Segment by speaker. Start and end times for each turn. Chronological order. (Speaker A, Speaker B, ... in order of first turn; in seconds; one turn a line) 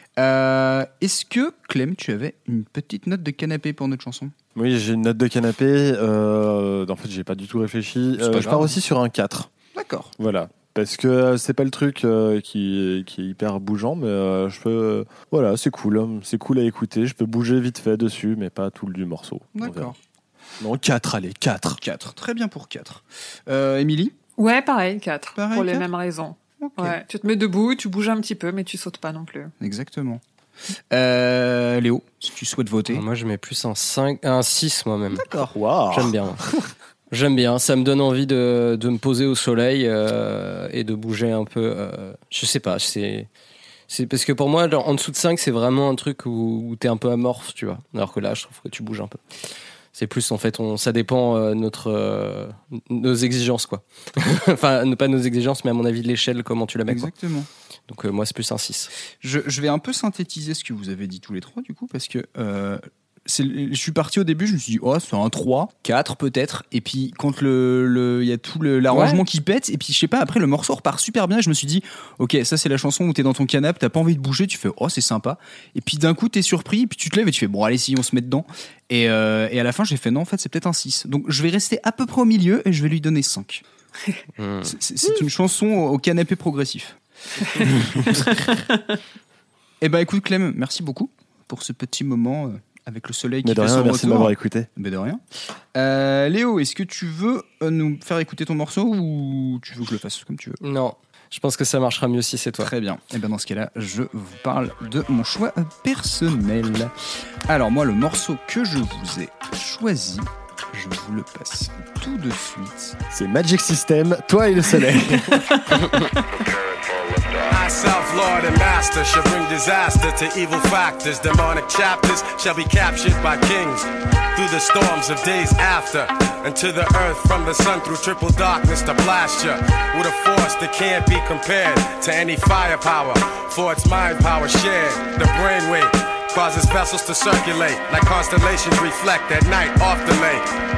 Speaker A: 0.2-4.3
Speaker B: 4.5-9.5
Speaker A: 8.2-8.7
Speaker A: 9.8-10.1
Speaker B: 10.2-19.9
Speaker A: 19.5-19.9
Speaker B: 20.6-21.8
Speaker A: 21.8-24.1
Speaker C: 24.4-29.5
Speaker A: 25.4-25.9
Speaker A: 26.6-27.0
Speaker A: 29.6-30.2
Speaker A: 30.9-33.0
Speaker D: 32.9-35.2
Speaker A: 35.1-35.5
Speaker B: 35.5-36.6
Speaker D: 35.9-36.4
Speaker D: 37.1-43.3
Speaker D: 43.9-49.2
Speaker D: 49.9-57.1
Speaker A: 56.9-57.5
Speaker D: 57.9-58.9
Speaker A: 59.2-83.6
Speaker D: 84.4-84.8
Speaker A: 84.6-87.0
Speaker C: 87.5-89.0
Speaker A: 87.6-88.1
Speaker A: 89.8-95.2
Speaker B: 93.4-94.7
Speaker A: 95.7-100.6
Speaker D: 100.6-102.7
Speaker A: 102.6-106.9
Speaker A: 107.5-113.0
Speaker B: 113.1-115.6
Speaker C: 115.3-116.1
Speaker E: 117.4-140.4